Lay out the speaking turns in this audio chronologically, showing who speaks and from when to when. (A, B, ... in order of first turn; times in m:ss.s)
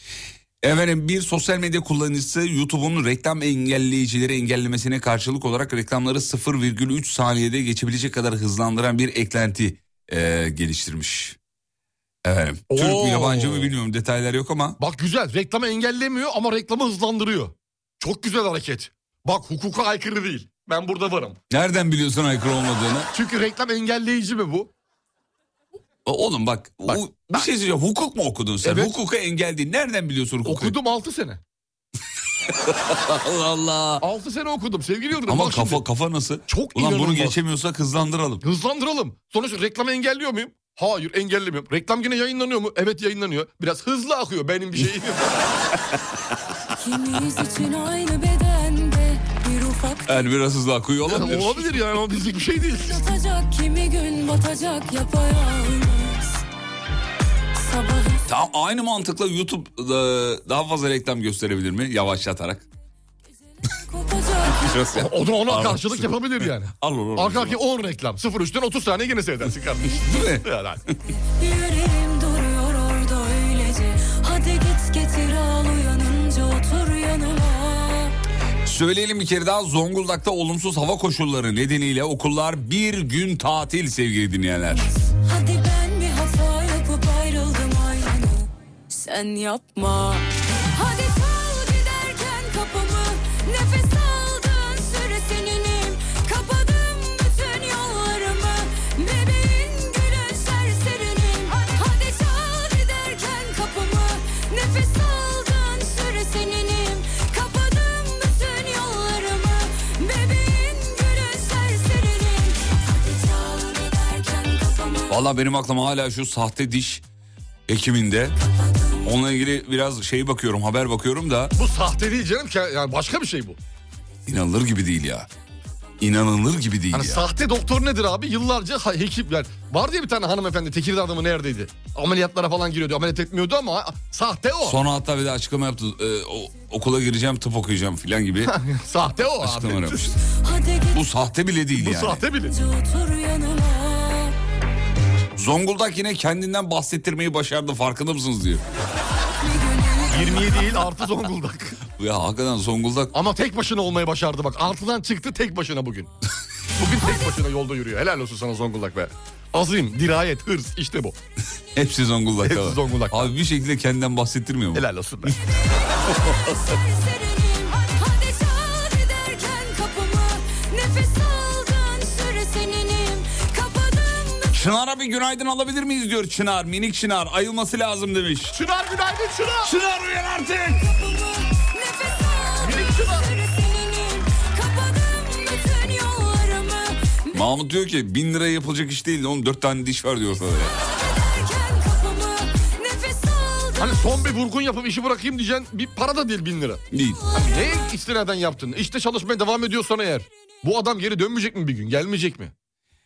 0:00.6-0:11.4 A
0:12.2-0:14.8 A
0:12.7-0:13.7 B
0:14.8-0:21.4 B
0:21.5-0:23.1 A
0:23.1-0:24.7 B
0:26.0-0:30.8 A
0:26.8-0:27.4 B
0:28.6-0:28.9 B
0:30.4-0:31.4 B
0:32.5-0:34.0 A
0:34.0-0:35.8 B
0:35.3-0:38.4 A
0:36.5-0:37.4 B
0:38.4-0:45.3 B
0:46.8-0:50.2 C
0:50.0-0:51.9 A
0:51.0-0:53.0 B
0:52.8-0:56.4 C
0:57.6-0:58.2 C
0:58.2-1:02.6 A
1:03.8-1:04.8 C
1:04.5-1:07.6 A
1:04.9-1:10.8 B
1:09.9-1:10.4 A
1:11.4-1:18.1 C
1:18.6-1:24.9 A
1:25.2-1:30.2 C
1:30.7-1:55.1 C
1:55.1-1:57.0 A
1:57.7-1:58.4 A
1:59.0-2:01.5 A
2:01.6-2:03.6 B
2:04.3-2:05.3 A
2:06.0-2:07.2 A
2:06.9-2:14.8 B
2:14.6-2:18.5 A
2:18.4-2:20.1 B
2:19.4-2:20.2 A
2:20.4-2:21.0 C
2:20.9-2:22.2 A
2:21.8-2:22.6 B
2:22.5-2:24.3 C
2:25.4-2:28.6 A
2:29.4-2:30.8 C
2:30.1-2:31.8 B
2:31.9-2:33.1 A
2:33.1-2:36.1 B
2:36.8-2:41.2 B
2:41.7-2:45.4 A
2:42.4-2:43.3 B
2:44.7-2:45.4 B
2:46.2-2:46.5 A
2:46.5-2:54.5 C
2:54.5-2:58.6 A
2:58.5-2:59.7 B
2:59.6-3:00.8 A
3:00.9-3:07.3 C
3:02.6-3:03.3 B
3:07.3-3:10.7 A
3:10.9-3:14.0 C
3:13.8-3:22.5 B
3:16.9-3:17.2 A